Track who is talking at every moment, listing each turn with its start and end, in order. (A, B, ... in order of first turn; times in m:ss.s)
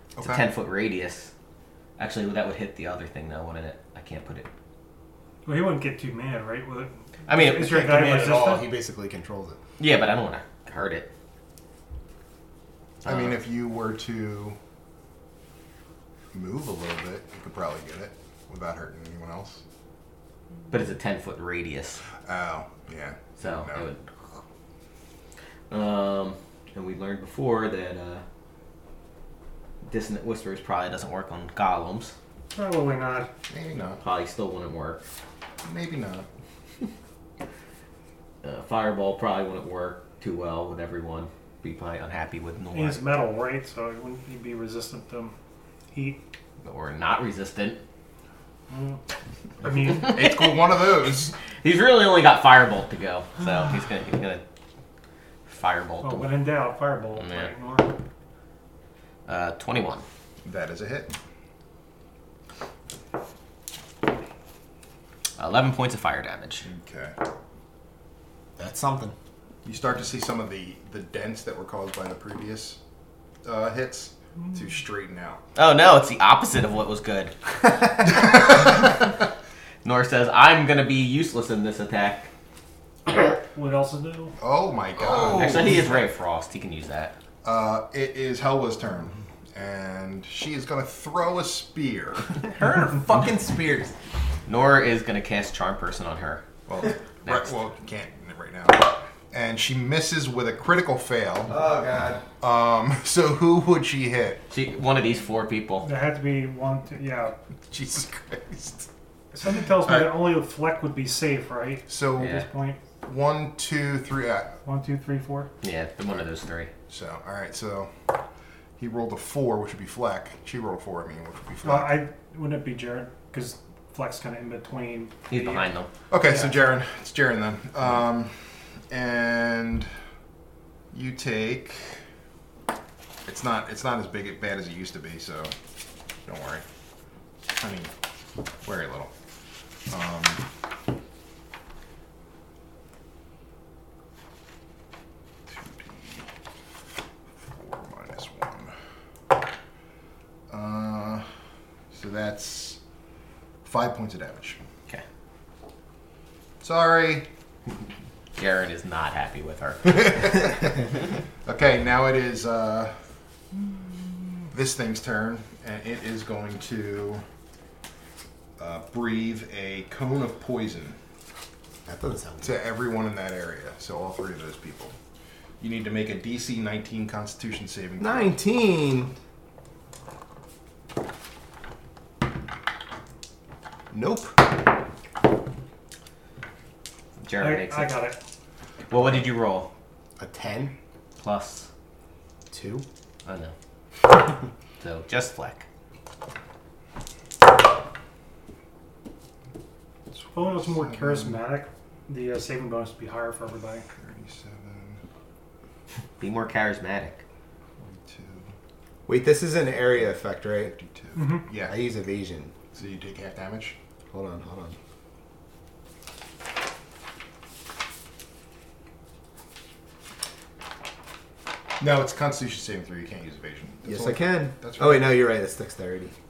0:00.1-0:00.4 A
0:00.2-0:01.3 B
0:02.0-0:04.5 B
0:05.4-0:08.7 C
0:07.3-0:07.7 B
0:07.5-0:09.6 D
0:09.8-0:11.1 B
0:13.0-0:13.4 B
0:13.0-0:14.6 A
0:16.3-0:19.6 A
0:20.7-0:22.0 B
0:22.2-0:23.9 A
0:23.4-0:24.0 B
0:25.7-0:28.2 B
0:29.8-0:32.1 B
0:32.5-0:33.3 C
0:33.5-0:34.0 A
0:34.0-0:35.0 B
0:35.6-0:36.3 A
0:38.4-0:43.0 B
0:42.7-0:45.3 C
0:45.9-0:46.2 C
0:46.6-0:47.8 B
0:48.7-0:49.0 C
0:49.6-0:50.2 C
0:49.7-0:50.6 B
0:49.8-0:51.3 A
0:51.6-0:54.4 B
0:55.5-0:56.3 B
0:56.0-0:57.9 C
0:57.2-0:57.5 B
0:59.3-1:00.0 B
1:00.4-1:01.1 A
1:05.4-1:06.6 B
1:06.6-1:07.2 A
1:08.6-1:09.1 D
1:09.6-1:12.8 A
1:13.4-1:15.4 A
1:15.5-1:17.3 B
1:18.1-1:18.8 A
1:19.8-1:22.3 B
1:23.1-1:24.4 C
1:24.4-1:25.8 A
1:25.1-1:27.2 B
1:25.2-1:25.8 D
1:27.4-1:32.3 A
1:32.4-1:33.9 D
1:34.4-1:36.4 B
1:36.7-1:41.6 A
1:37.2-1:37.5 B
1:41.5-1:42.2 D
1:42.4-1:44.4 A
1:44.5-1:45.9 B
1:45.8-1:47.3 C
1:47.7-1:48.9 A
1:49.3-1:52.8 C
1:49.8-1:50.2 A
1:51.9-1:52.4 A
1:52.2-1:52.4 B
1:53.0-1:54.5 A
1:54.6-1:55.5 C
1:55.6-1:56.7 B
1:56.9-1:57.9 A
1:58.8-2:02.0 A
2:01.6-2:05.7 C
2:05.3-2:05.9 B
2:06.1-2:09.9 A
2:10.9-2:12.0 A
2:13.2-2:15.5 A
2:16.2-2:16.6 A
2:17.5-2:17.9 A
2:18.6-2:19.1 A
2:19.9-2:20.5 A
2:25.5-2:26.3 A
2:27.5-2:28.7 A
2:30.5-2:31.2 A
2:31.9-2:32.8 A
2:33.6-2:34.6 A
2:36.6-2:37.3 A
2:38.4-2:40.5 B
2:41.4-2:43.0 A
2:44.5-2:47.2 A
2:48.6-2:51.0 A
2:51.8-2:52.5 D
2:52.4-2:54.9 A
2:55.6-2:58.3 A
2:58.0-2:59.1 D
3:03.9-3:04.4 D
3:07.2-3:08.0 B
3:07.4-3:08.2 C
3:08.9-3:09.7 B
3:10.2-3:10.7 D
3:11.2-3:11.7 B
3:12.5-3:12.8 D
3:13.2-3:13.5 B
3:14.8-3:15.6 B
3:20.3-3:23.8 C
3:20.4-3:21.4 A
3:24.0-3:25.0 A
3:26.2-3:27.2 B
3:27.8-3:28.5 A
3:29.0-3:30.8 D
3:30.7-3:31.8 A
3:31.1-3:31.4 C
3:31.5-3:32.5 D
3:32.7-3:33.8 A
3:34.1-3:34.8 D
3:41.8-3:45.2 A
3:43.8-3:46.1 D